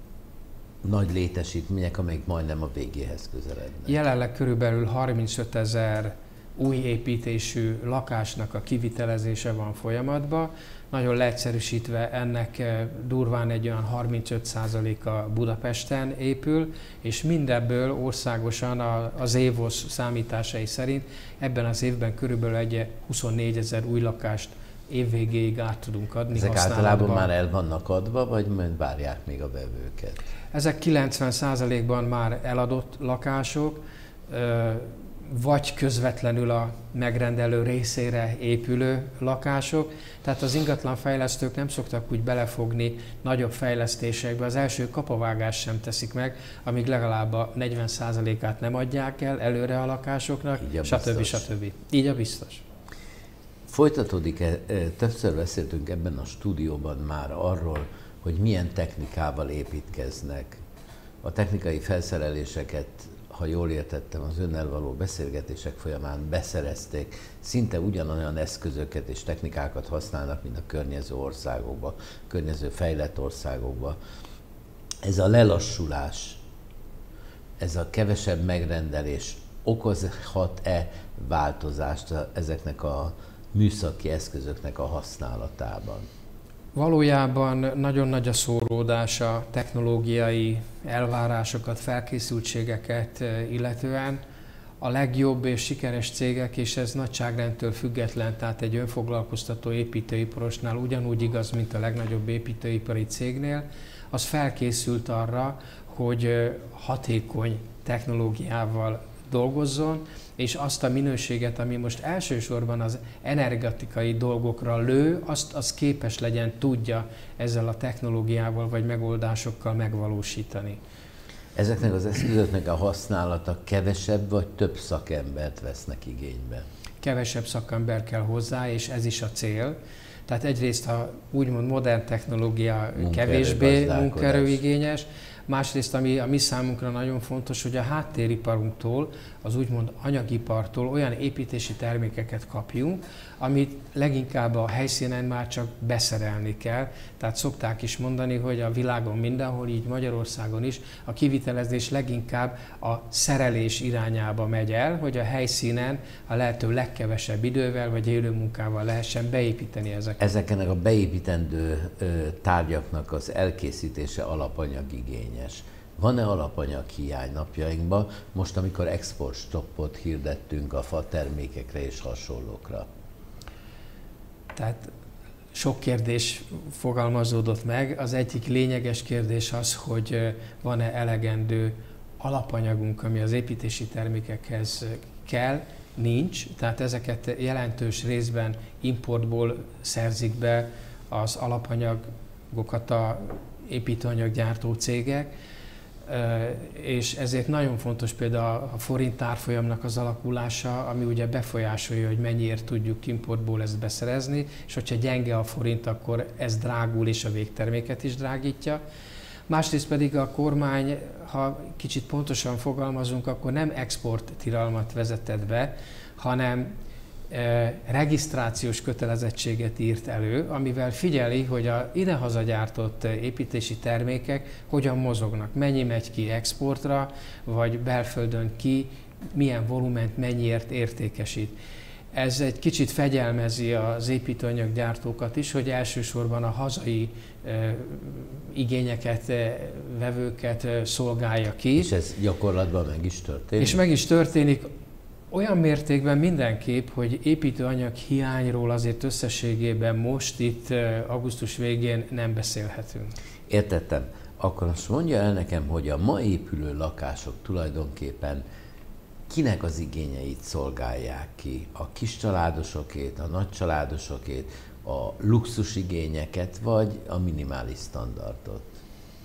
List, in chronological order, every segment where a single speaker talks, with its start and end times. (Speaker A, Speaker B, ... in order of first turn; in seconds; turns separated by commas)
Speaker A: 0.8-4.0, Speaker B: 3.9-27.3, Speaker A: 26.3-30.2, Speaker B: 30.5-52.6, Speaker A: 50.6-51.5, Speaker A: 53.7-60.6, Speaker A: 61.2-74.0, Speaker A: 75.0-76.4, Speaker A: 77.6-86.1, Speaker B: 86.7-94.2, Speaker B: 94.8-120.8, Speaker A: 121.5-126.7, Speaker B: 127.0-129.8, Speaker B: 130.3-160.2, Speaker A: 133.0-134.6, Speaker A: 160.2-172.9, Speaker B: 174.5-174.9, Speaker B: 175.5-195.3, Speaker B: 196.1-208.8, Speaker B: 209.5-216.7, Speaker B: 217.3-231.5, Speaker B: 232.1-241.9, Speaker A: 241.8-243.8, Speaker B: 243.6-244.7, Speaker B: 245.3-253.2, Speaker A: 253.5-258.4, Speaker A: 259.3-268.7